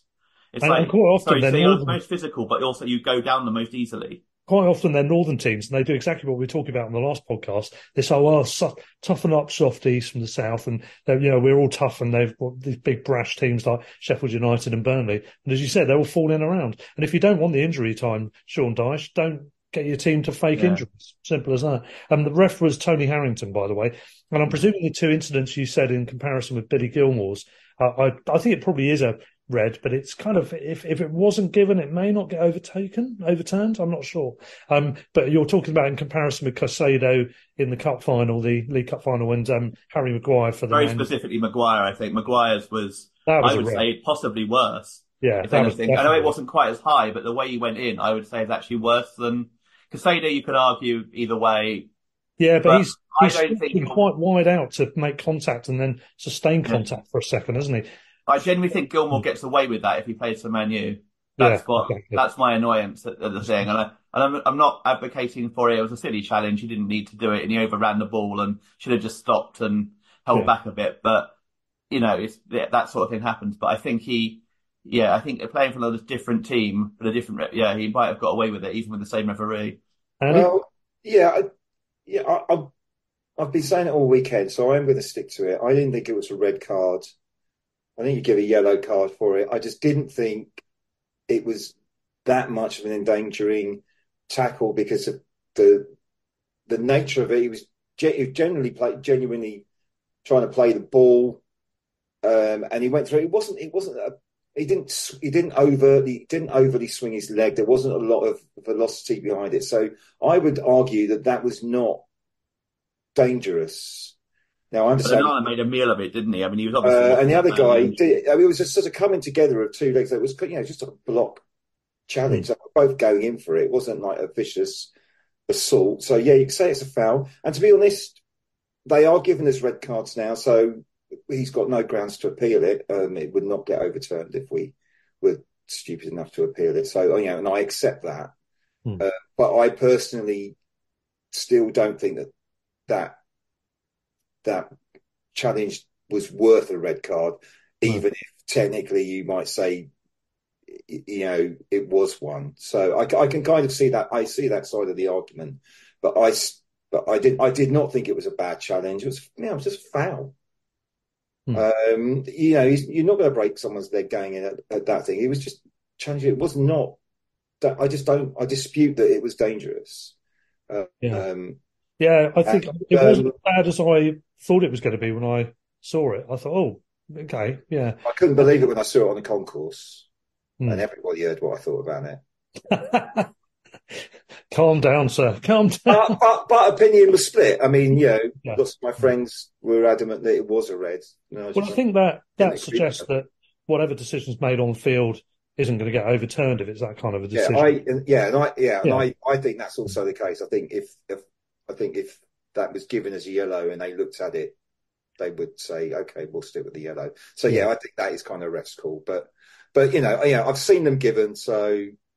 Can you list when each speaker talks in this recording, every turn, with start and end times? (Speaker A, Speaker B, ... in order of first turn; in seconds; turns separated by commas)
Speaker A: 0.5-4.2, Speaker B: 0.6-2.0, Speaker B: 4.5-41.1, Speaker A: 20.6-20.8, Speaker A: 40.7-51.9, Speaker B: 43.3-43.8, Speaker B: 45.2-46.3, Speaker B: 52.4-57.9, Speaker A: 52.6-54.0, Speaker A: 58.3-71.3, Speaker B: 61.4-62.2, Speaker A: 71.9-79.8, Speaker B: 80.2-80.5, Speaker C: 80.3-81.5, Speaker C: 82.1-82.7, Speaker C: 83.4-87.1, Speaker C: 88.0-90.5, Speaker C: 91.3-95.9, Speaker C: 96.7-99.6, Speaker C: 100.2-101.4, Speaker C: 102.2-112.0, Speaker C: 113.1-114.1, Speaker C: 114.7-115.3, Speaker A: 115.0-118.0, Speaker C: 116.8-121.4, Speaker C: 122.1-124.9, Speaker C: 125.5-128.2, Speaker C: 128.8-138.3, Speaker C: 139.0-140.6, Speaker C: 141.3-142.3, Speaker C: 142.9-143.2, Speaker C: 144.4-144.7, Speaker C: 145.3-149.9, Speaker C: 150.9-160.3, Speaker C: 161.5-167.0, Speaker C: 167.6-170.1, Speaker C: 170.7-171.6, Speaker B: 172.0-178.0, Speaker C: 172.4-173.3, Speaker C: 178.0-180.1, Speaker C: 180.7-182.2, Speaker B: 182.7-183.3, Speaker B: 183.9-186.2, Speaker C: 185.9-191.8, Speaker B: 191.5-197.8, Speaker C: 192.4-193.1, Speaker C: 197.3-204.5, Speaker C: 205.2-211.9